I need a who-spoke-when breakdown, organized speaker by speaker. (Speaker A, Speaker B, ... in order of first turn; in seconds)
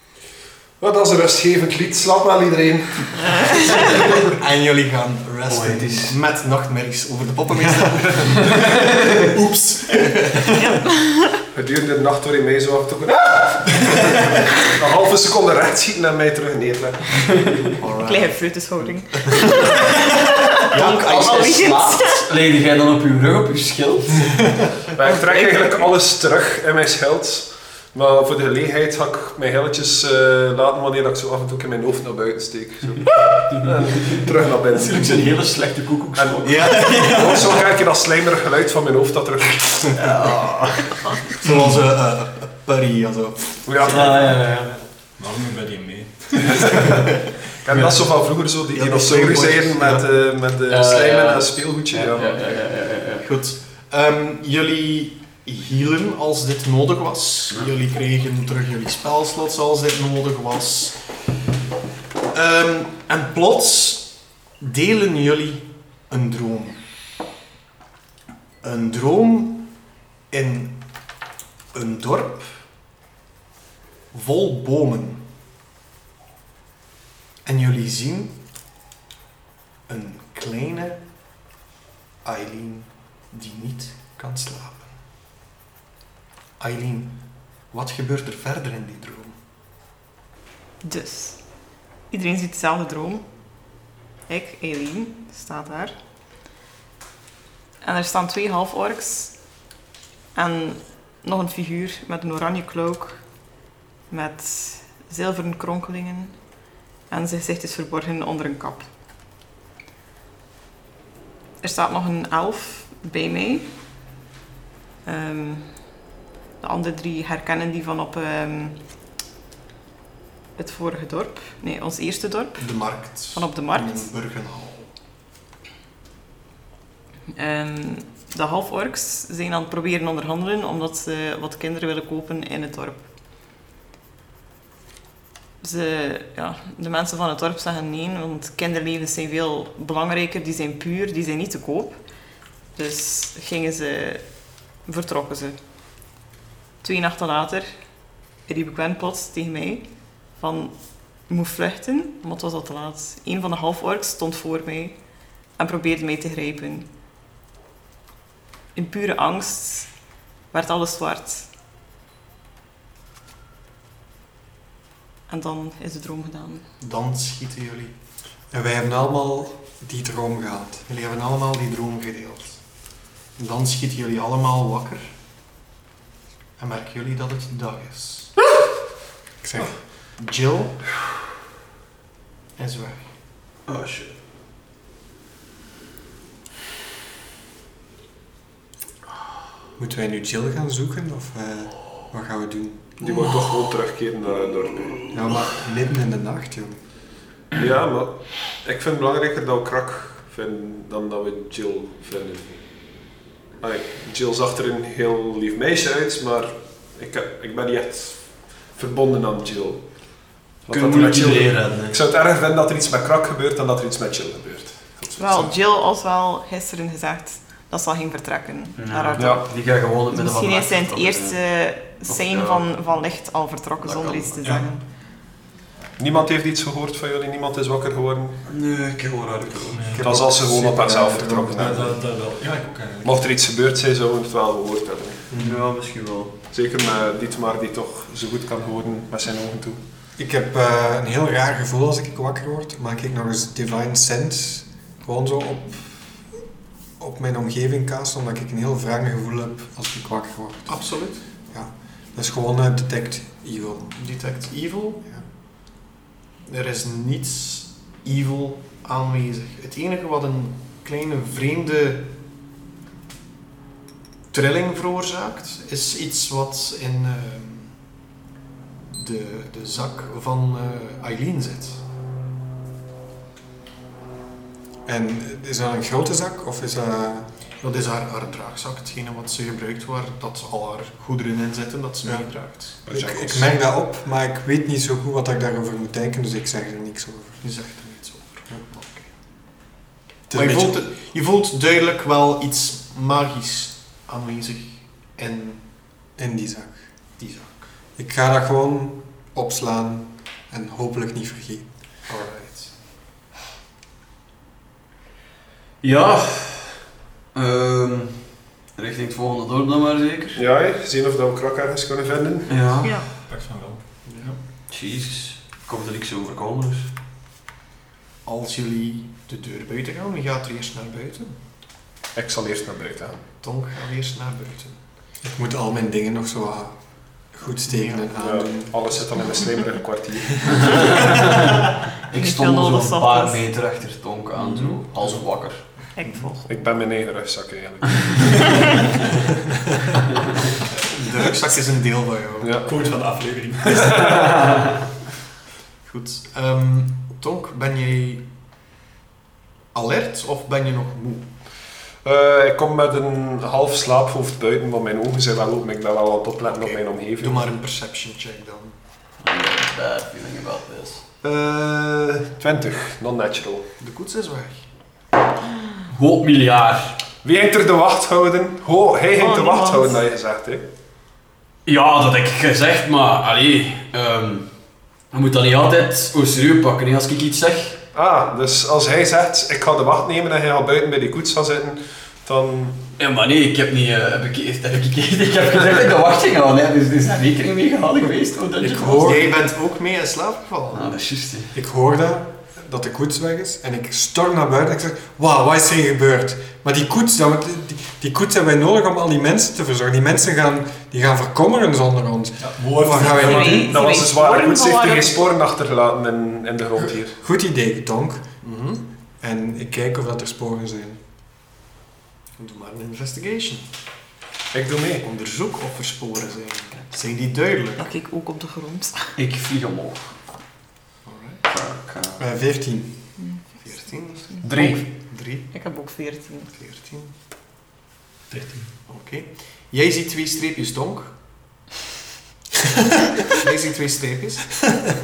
Speaker A: 0.8-4.2, 11.5-17.4, 24.9-35.4, 36.1-40.2, 43.6-44.4, 46.6-52.6, 193.0-195.1, 197.5-203.0, 203.6-215.6, 219.2-219.4, 226.0-228.4, 229.9-232.1, 233.0-235.3, 236.5-239.8, 282.8-283.5, 310.4-312.8, 322.1-323.2, 328.2-331.0, 336.5-339.0, 342.4-342.8, 343.7-344.2, 352.0-357.5, 361.2-363.7, 367.2-370.6, 377.9-382.8, 403.2-407.2, 414.5-415.1
Speaker B: 4.2-10.5, 17.8-19.6, 20.7-21.4, 36.4-37.5, 41.4-43.7, 48.7-50.0, 53.2-61.0, 62.3-66.8, 68.6-69.7, 70.3-70.8, 71.7-72.5, 74.1-75.2, 77.4-78.4, 79.9-81.0, 82.2-84.9, 86.6-87.2, 87.7-89.4, 122.6-124.9, 166.8-167.9, 170.9-172.6, 173.3-175.1, 176.6-178.3, 180.2-180.8, 182.6-183.1, 250.7-251.2, 253.9-255.1, 256.4-262.1, 264.3-267.8, 268.9-271.8, 277.6-282.8, 287.4-289.1, 290.3-295.6, 297.2-297.7, 302.1-302.7, 314.1-314.3, 318.2-321.4, 323.4-324.8, 327.6-328.1, 334.4-334.8, 340.9-342.5, 345.8-348.3, 349.7-351.3, 356.5-358.7, 363.8-364.6, 389.0-390.9, 408.4-408.8, 412.4-413.6, 415.0-417.9, 421.0-421.4, 423.6-425.5, 426.5-427.1, 428.9-431.1, 433.3-434.5
Speaker C: 5.5-6.2, 20.7-24.5, 33.2-37.6, 40.0-41.4, 43.9-44.8, 50.7-53.2, 183.7-184.1, 210.7-212.0, 218.8-222.7, 223.8-224.6, 228.5-230.0, 235.3-236.3, 305.8-306.8, 307.3-310.4, 312.5-313.0, 314.7-316.9, 330.7-335.9, 359.2-361.0, 365.9-367.0, 371.6-374.5, 375.1-377.8, 383.0-389.3, 390.7-391.5, 419.1-420.2, 421.5-422.3, 424.4-424.9
Speaker D: 10.6-11.4, 18.0-22.2, 25.3-25.8, 90.8-91.4, 92.1-93.2, 94.3-95.9, 97.8-99.4, 100.3-103.2, 104.1-106.3, 107.1-108.9, 111.6-113.7, 115.0-115.7, 116.6-118.8, 120.6-124.1, 127.3-133.0, 135.6-142.0, 142.7-144.2, 144.8-145.6, 146.8-147.7, 148.4-154.9, 155.6-156.8, 158.7-159.9, 160.5-161.5, 165.3-166.6, 215.2-219.4, 220.1-224.8, 312.8-313.1, 332.1-333.4, 335.9-336.5, 369.2-370.0, 403.1-405.2, 417.8-419.1, 423.2-423.5, 424.4-424.8, 425.4-426.5
Speaker E: 45.2-46.9, 229.7-230.1, 231.5-233.1, 313.1-314.4, 342.6-344.4, 402.4-403.5, 428.3-428.7
Speaker F: 168.5-170.8, 179.4-179.7, 189.8-193.0, 195.1-196.8, 230.0-232.9, 235.3-235.6, 240.2-246.2, 247.0-250.9, 251.5-253.9, 274.9-277.3, 282.0-287.4, 290.3-290.8, 296.1-296.9, 297.9-301.7, 325.2-326.8, 327.3-329.0, 388.6-389.3, 391.5-403.6, 407.2-408.3, 409.2-411.0, 422.2-422.9